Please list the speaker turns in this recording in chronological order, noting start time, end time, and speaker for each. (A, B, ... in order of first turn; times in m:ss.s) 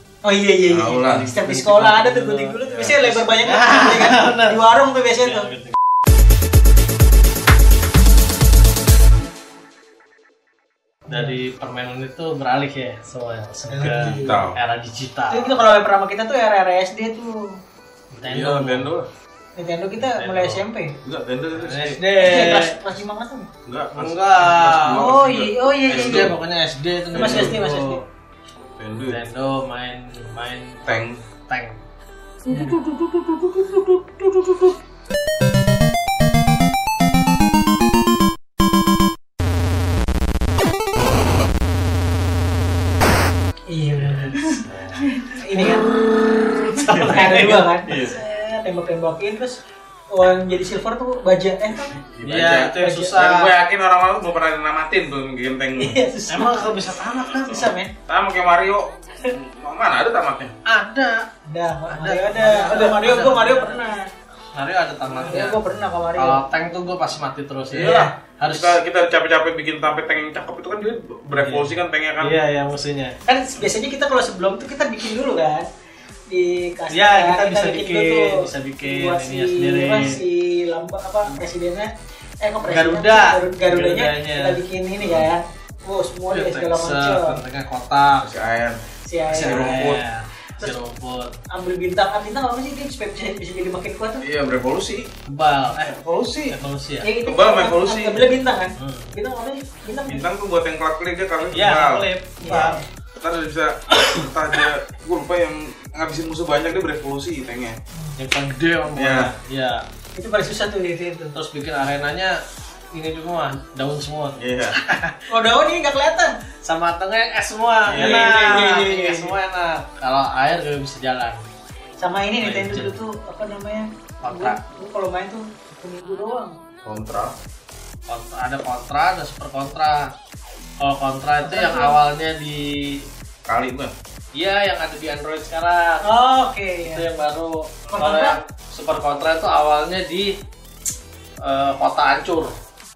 0:00.2-0:05.5 A
0:00.7-0:01.3 B
0:01.0-0:02.6 C
0:02.6-0:03.5 B
0:03.4-0:04.6 C
0:05.2-0:05.8 C
0:11.1-0:11.4 A
0:11.1-0:15.6 C
0:13.6-0:14.4 A
0:14.1-0:14.6 B
0:15.3-0:17.4 A
0:18.1-0:18.9 C
0:18.2-0:19.1 B
0:19.6-0:21.0 A
0:20.0-0:20.6 C
0:21.0-0:22.0 B
0:21.5-0:22.8 C
0:22.2-0:23.5 A
0:23.7-0:26.4 B
0:24.0-0:25.2 C
0:24.9-0:26.3 A
0:25.8-0:28.0 C
0:27.1-0:28.0 A
0:27.1-0:27.6 B
0:28.8-0:29.2 B
0:29.1-0:31.8 C
0:30.9-0:31.2 B
0:32.5-0:34.7 C
0:32.5-0:32.8 A
0:43.7-0:44.6 A
0:44.0-0:45.0 B
0:45.2-0:45.9 A
0:45.6-0:47.7 C
0:46.8-0:47.1 B
0:47.0-0:49.6 A
0:47.8-0:48.2 B
0:50.1-0:52.0 A
0:52.1-0:56.0 B
0:52.2-0:53.5 C
0:52.8-0:53.2 A
0:55.8-0:56.8 A
0:56.3-0:57.7 C
0:57.5-0:57.9 A
0:58.1-1:00.5 B
1:00.7-1:01.3 C
1:01.5-1:04.0 A
1:01.9-1:03.9 C
1:04.5-1:05.6 C
1:05.1-1:06.4 A
1:06.1-1:08.8 C
1:07.7-1:12.4 B
1:07.8-1:08.1 A
1:11.4-1:13.2 C
1:13.3-1:15.7 A
1:16.3-1:21.9 A
1:16.9-1:20.2 C
1:22.4-1:27.4 A
1:22.6-1:24.6 C
1:26.3-1:28.3 C
1:28.2-1:28.8 B
1:29.1-1:29.7 A
1:29.3-1:31.3 C
1:29.4-1:30.0 B
1:31.5-1:34.2 A
1:34.2-1:35.1 B
1:35.3-1:37.1 C
1:35.9-1:36.6 B
1:37.0-1:40.2 A
1:37.2-1:38.2 B
1:38.8-1:39.1 C
1:40.0-1:47.8 B
1:41.5-1:42.8 C
1:42.4-1:42.9 A
1:48.2-1:49.8 C
1:49.0-1:49.3 B
1:50.1-1:51.3 A
1:51.3-1:52.4 C
1:52.9-1:55.2 C
1:54.4-1:54.8 B
1:55.3-1:56.3 A
1:56.6-2:01.4 C
1:57.8-1:58.6 B
1:57.9-1:59.4 A
2:02.0-2:06.6 A
2:02.4-2:03.0 C
2:04.2-2:04.6 C
2:06.8-2:07.3 B
2:08.1-2:10.1 C
2:10.8-2:13.1 C
2:11.4-2:12.0 A
2:13.4-2:13.9 B
2:14.3-2:16.1 C
2:16.0-2:17.1 A
2:16.8-2:20.3 C
2:17.9-2:18.4 A
2:21.4-2:22.6 C